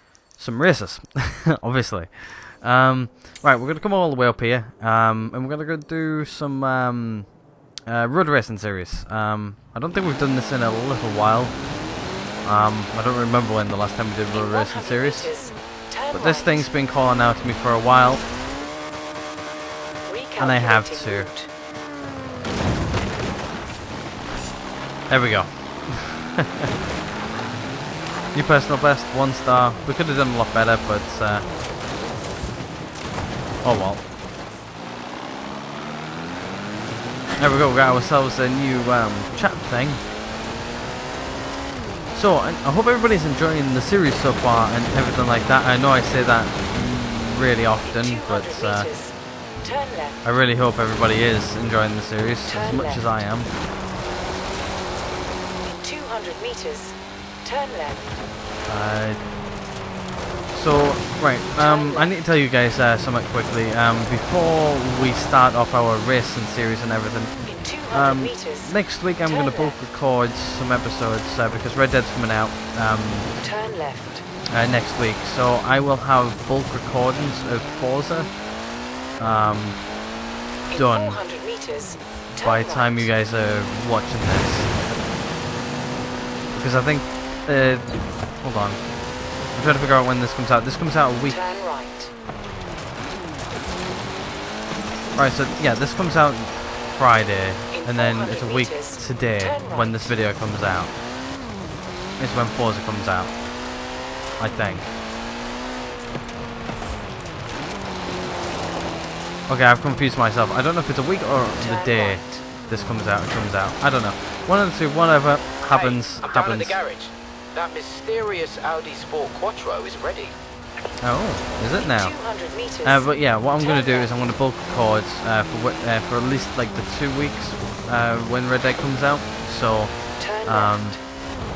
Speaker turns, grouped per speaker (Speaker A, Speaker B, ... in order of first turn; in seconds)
Speaker A: 0.3-7.3, 7.9-11.7, 12.4-15.4, 16.1-18.2, 20.4-21.3, 25.1-26.7, 28.3-31.5, 33.6-34.0, 37.4-40.0, 42.1-48.9, 50.2-53.5, 58.7-59.2, 60.5-73.3, 74.5-78.4, 79.2-79.9, 80.7-81.2, 82.4-84.7, 86.5-91.4, 95.1-101.0, 102.2-103.4, 104.4-104.9, 109.5-116.8, 121.0-131.1
Speaker B: 14.3-16.7, 20.1-21.5, 47.8-50.2, 52.5-53.0, 55.6-58.2, 61.6-62.1, 67.4-69.8, 73.4-74.3, 80.7-83.1, 91.3-92.1, 97.7-100.2, 111.6-112.4, 121.8-124.1, 130.2-131.0
Speaker C: 115.7-120.3